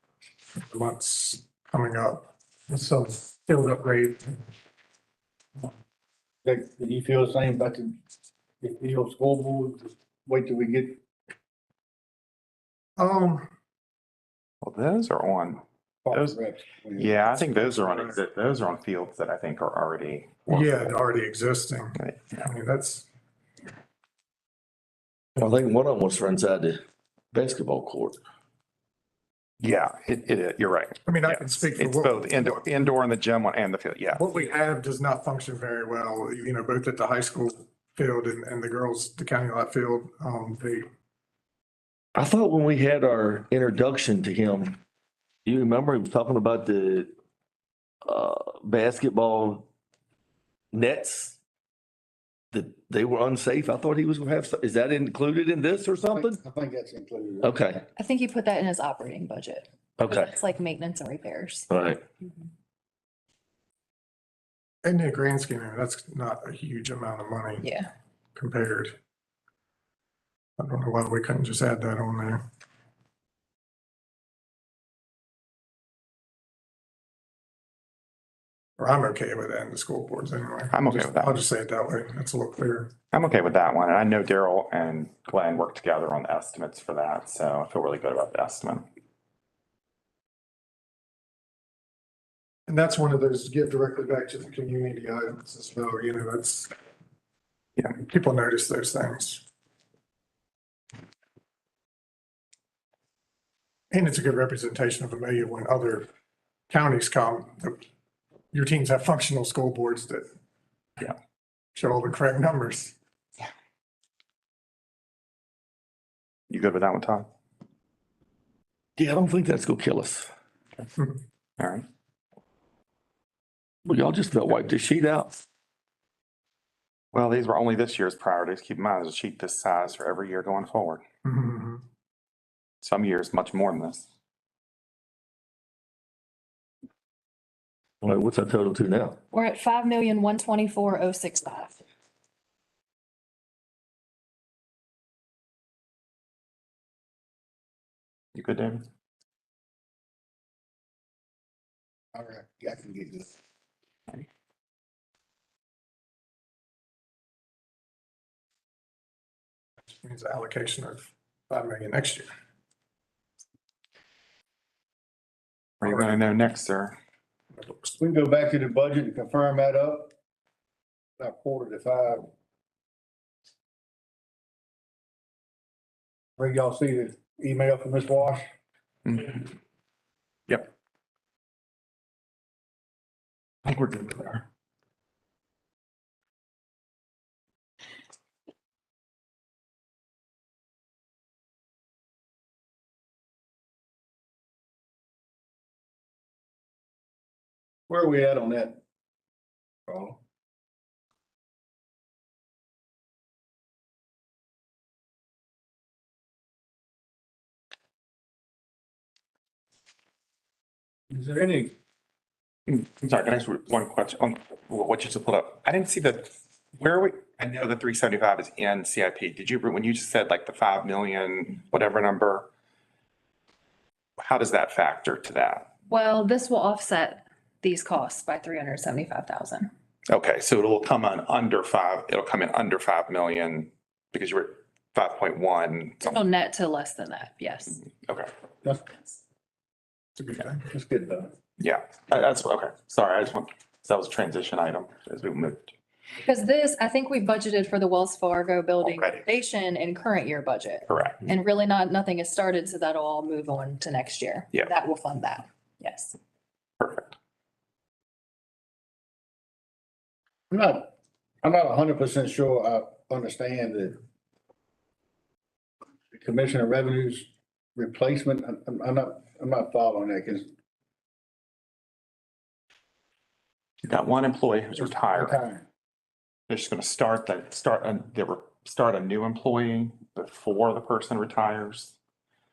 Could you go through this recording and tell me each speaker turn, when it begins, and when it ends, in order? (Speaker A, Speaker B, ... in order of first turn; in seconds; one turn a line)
Speaker A: 0.7-4.3
Speaker B: 6.4-8.0
Speaker B: 8.6-11.0
Speaker A: 13.0-13.5
Speaker C: 14.6-16.4
Speaker B: 16.1-17.2
Speaker C: 16.9-20.9
Speaker A: 20.5-23.1
Speaker C: 21.9-22.5
Speaker D: 25.4-28.2
Speaker C: 29.6-34.3
Speaker A: 31.1-32.6
Speaker A: 34.1-40.9
Speaker D: 42.1-44.8
Speaker D: 45.5-47.1
Speaker D: 48.0-49.7
Speaker D: 50.7-51.4
Speaker D: 52.5-56.4
Speaker B: 56.1-57.8
Speaker D: 57.4-57.8
Speaker E: 58.0-61.7
Speaker D: 60.0-60.3
Speaker D: 61.7-62.0
Speaker A: 64.8-67.7
Speaker E: 67.6-67.9
Speaker A: 68.3-69.0
Speaker A: 70.6-72.4
Speaker A: 78.8-82.9
Speaker C: 80.7-81.4
Speaker C: 83.1-88.8
Speaker A: 92.7-96.7
Speaker A: 97.9-99.4
Speaker A: 103.9-106.1
Speaker A: 106.7-107.8
Speaker A: 108.5-110.3
Speaker A: 111.7-113.0
Speaker C: 116.5-117.3
Speaker D: 119.0-120.3
Speaker C: 121.6-121.8
Speaker D: 123.8-125.3
Speaker C: 127.1-131.0
Speaker A: 131.2-131.8
Speaker C: 132.8-134.1
Speaker D: 138.0-139.2
Speaker E: 139.3-141.8
Speaker C: 148.3-148.8
Speaker B: 152.1-153.3
Speaker A: 160.0-162.3
Speaker C: 165.8-166.9
Speaker B: 168.0-170.1
Speaker B: 171.2-172.3
Speaker B: 176.4-178.5
Speaker C: 179.0-179.5
Speaker C: 183.6-184.4
Speaker B: 197.9-198.8
Speaker B: 199.9-200.2
Speaker B: 211.1-211.7
Speaker C: 212.7-222.5
Speaker C: 224.2-225.7
Speaker E: 225.9-229.7
Speaker C: 230.1-236.2
Speaker E: 236.0-237.8
Speaker C: 237.8-238.3
Speaker A: 240.2-240.7
Speaker B: 240.7-241.3
Speaker C: 241.6-245.7
Speaker E: 246.2-256.1
Speaker C: 248.8-249.3
Speaker C: 250.9-251.2
Speaker C: 256.8-257.1
Speaker B: 260.5-260.9
Speaker B: 261.4-264.0
Speaker B: 266.1-270.5
Speaker C: 273.8-275.4
Speaker B: 274.8-275.6
Speaker C: 276.5-281.9